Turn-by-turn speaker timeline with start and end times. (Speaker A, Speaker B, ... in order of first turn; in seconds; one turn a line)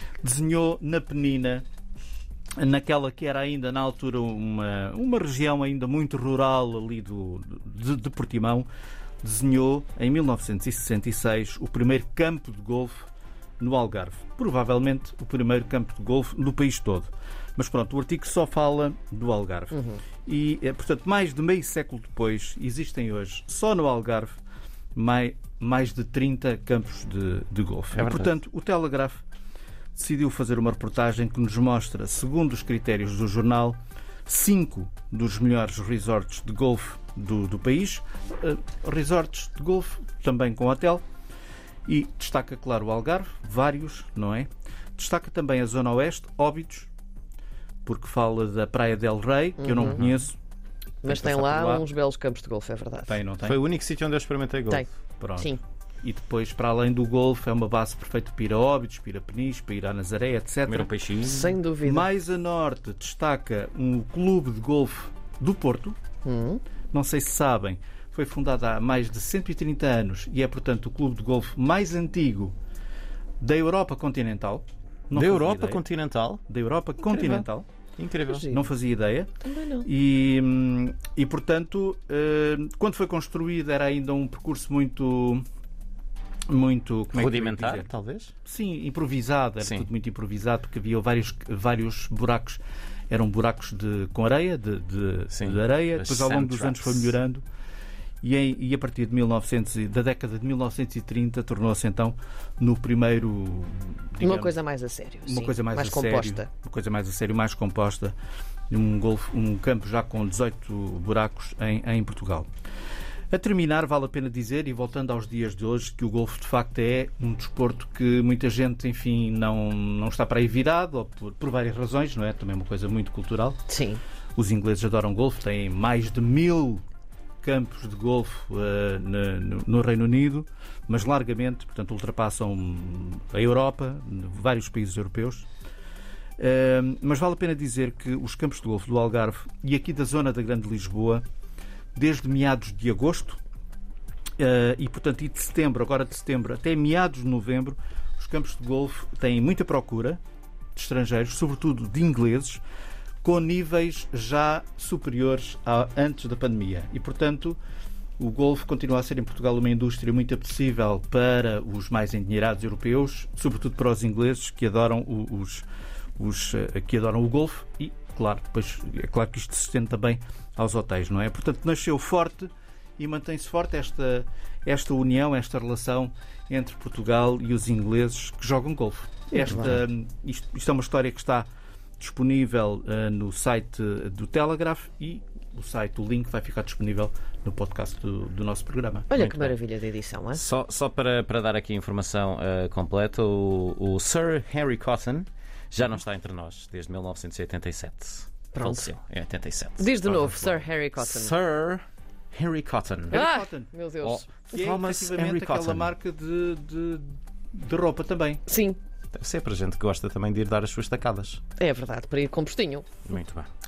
Speaker A: 0.2-1.6
Speaker A: 2.6-8.7
Speaker A: 9.2-13.1
Speaker A: 13.6-24.4
Speaker B: 19.7-20.0
Speaker A: 24.9-29.2
Speaker C: 28.0-28.3
Speaker A: 29.9-41.0
Speaker A: 41.9-46.9
Speaker A: 47.9-50.4
Speaker B: 49.6-50.0
Speaker C: 49.9-50.2
Speaker B: 51.0-53.1
Speaker A: 51.0-51.9
Speaker A: 53.1-53.6
Speaker C: 53.4-54.9
Speaker A: 55.2-60.9
Speaker C: 60.7-61.6
Speaker B: 61.2-62.1
Speaker A: 61.8-66.0
Speaker B: 66.2-66.6
Speaker A: 66.9-72.5
Speaker A: 73.4-75.8
Speaker C: 75.1-76.4
Speaker A: 76.5-77.7
Speaker C: 77.1-77.4
Speaker C: 78.0-78.5
Speaker B: 78.3-78.7
Speaker A: 78.5-79.3
Speaker B: 79.4-79.9
Speaker A: 79.8-85.4
Speaker A: 86.5-87.9
Speaker C: 87.1-88.3
Speaker A: 88.4-97.5
Speaker C: 89.6-89.9
Speaker C: 95.3-97.2
Speaker A: 98.2-104.6
Speaker B: 104.2-106.5
Speaker A: 105.3-108.2
Speaker A: 108.7-112.5
Speaker A: 113.3-123.6
Speaker B: 123.7-124.0
Speaker A: 124.4-126.8
Speaker A: 127.4-135.5
Speaker A: 136.4-141.2
Speaker A: 141.9-143.4
Speaker A: 144.4-150.2
Speaker A: 150.8-152.6
Speaker A: 153.2-157.6
Speaker A: 158.2-165.7
Speaker A: 166.2-181.5
Speaker B: 179.3-179.8
Speaker A: 182.0-189.3
Speaker B: 189.1-190.4
Speaker C: 189.2-189.4
Speaker C: 190.3-203.2
Speaker B: 198.6-198.8
Speaker B: 199.8-201.3
Speaker A: 203.1-203.7
Speaker B: 203.1-204.3
Speaker C: 204.0-205.9
Speaker A: 204.4-208.4
Speaker B: 208.5-208.8
Speaker C: 209.1-211.4
Speaker B: 211.6-212.9
Speaker C: 213.1-213.5